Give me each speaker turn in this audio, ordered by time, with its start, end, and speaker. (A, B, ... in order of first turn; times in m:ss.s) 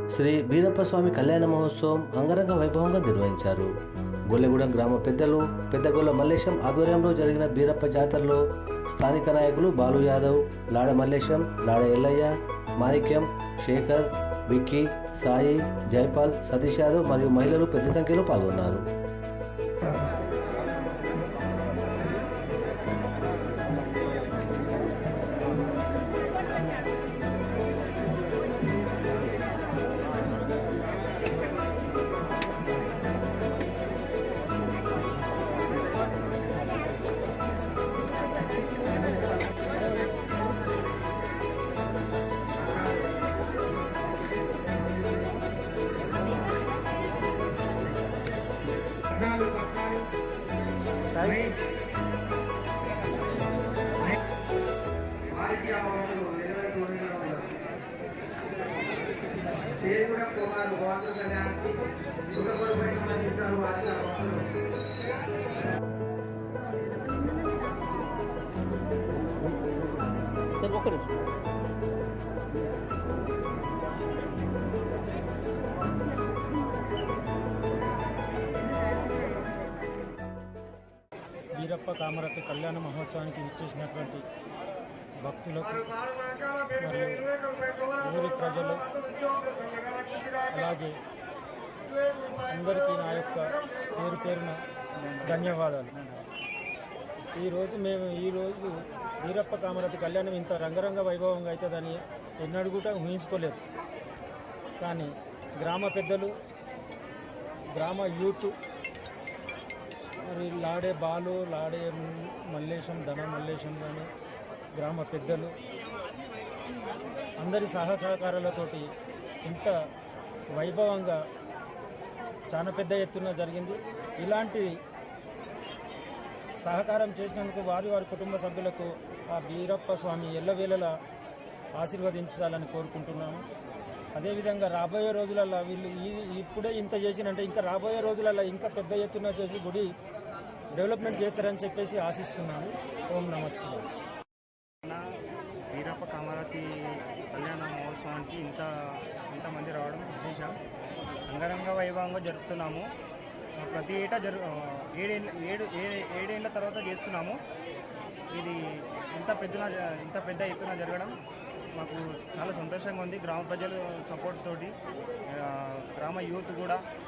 0:00.1-0:03.7 A
0:04.3-0:18.8 A
0:49.1-0:50.0 B
0:51.2-0:51.5 B
0:55.4-0:57.5 C
0:55.6-0:56.0 B
0:56.6-0:57.4 B
0:59.8-1:01.7 C
1:00.0-1:01.5 B
1:02.3-1:04.5 C
1:21.5-1:24.2 B
1:25.2-1:25.9 B
1:26.6-1:29.0 B
1:29.9-1:31.0 B
1:32.4-1:34.6 B
1:35.0-1:36.2 C
1:35.2-1:35.9 B
1:37.3-1:43.6 B
1:44.8-1:46.3 B
1:47.7-1:48.5 B
1:50.2-1:54.1 B
1:54.7-1:55.5 B
1:57.4-1:58.9 B
1:59.4-1:59.7 B
2:00.5-2:01.2 B
2:02.5-2:04.8 B
2:06.6-2:10.9 B
2:11.8-2:13.4 B
2:14.1-2:19.9 B
2:20.7-2:23.8 B
2:25.7-2:26.7 C
2:27.3-2:28.7 C
2:29.3-2:30.6 C
2:31.3-2:32.8 C
2:33.6-2:37.4 C
2:39.1-2:41.1 C
2:41.8-2:44.7 C
2:45.3-2:46.8 C